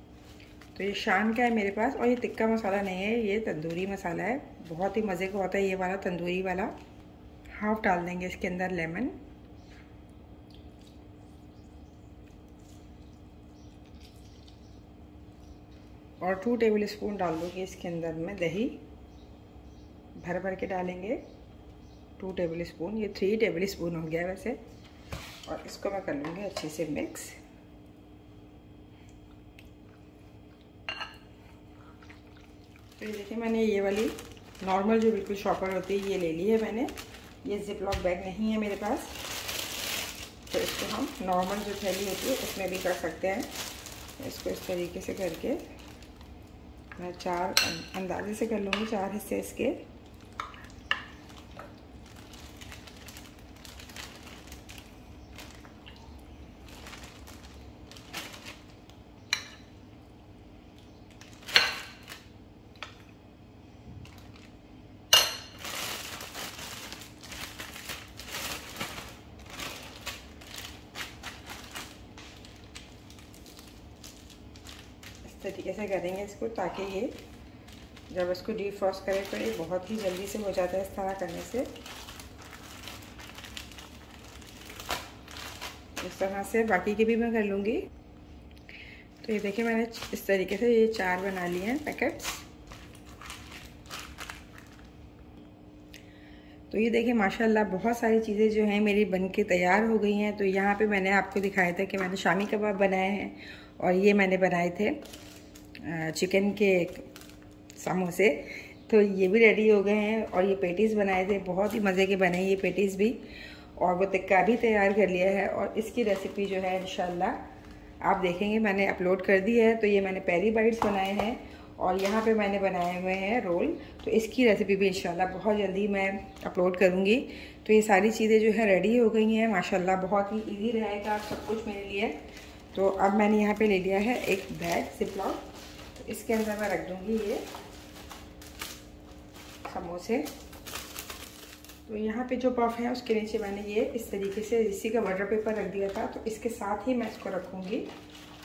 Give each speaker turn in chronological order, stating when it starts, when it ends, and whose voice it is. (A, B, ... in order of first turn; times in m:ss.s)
0:00.7-0:06.7 A
0:07.5-0:09.2 A
0:16.2-0:18.8 A
0:20.2-0:21.2 A
0:22.2-0:24.6 A
0:25.5-0:27.4 A
0:33.0-0:36.9 A
0:37.4-0:39.1 A
0:40.5-0:43.5 A
0:44.2-0:45.6 A
0:47.0-0:49.8 A
1:15.2-1:17.2 A
1:18.1-1:21.7 A
1:26.0-1:27.8 A
1:29.2-1:32.4 A
1:36.7-1:45.0 A
1:45.8-1:47.1 A
1:47.8-1:53.2 A
1:53.8-1:57.4 A
1:58.0-2:12.2 A
2:12.7-2:17.4 A
2:19.6-2:20.3 A
2:21.9-2:27.9 A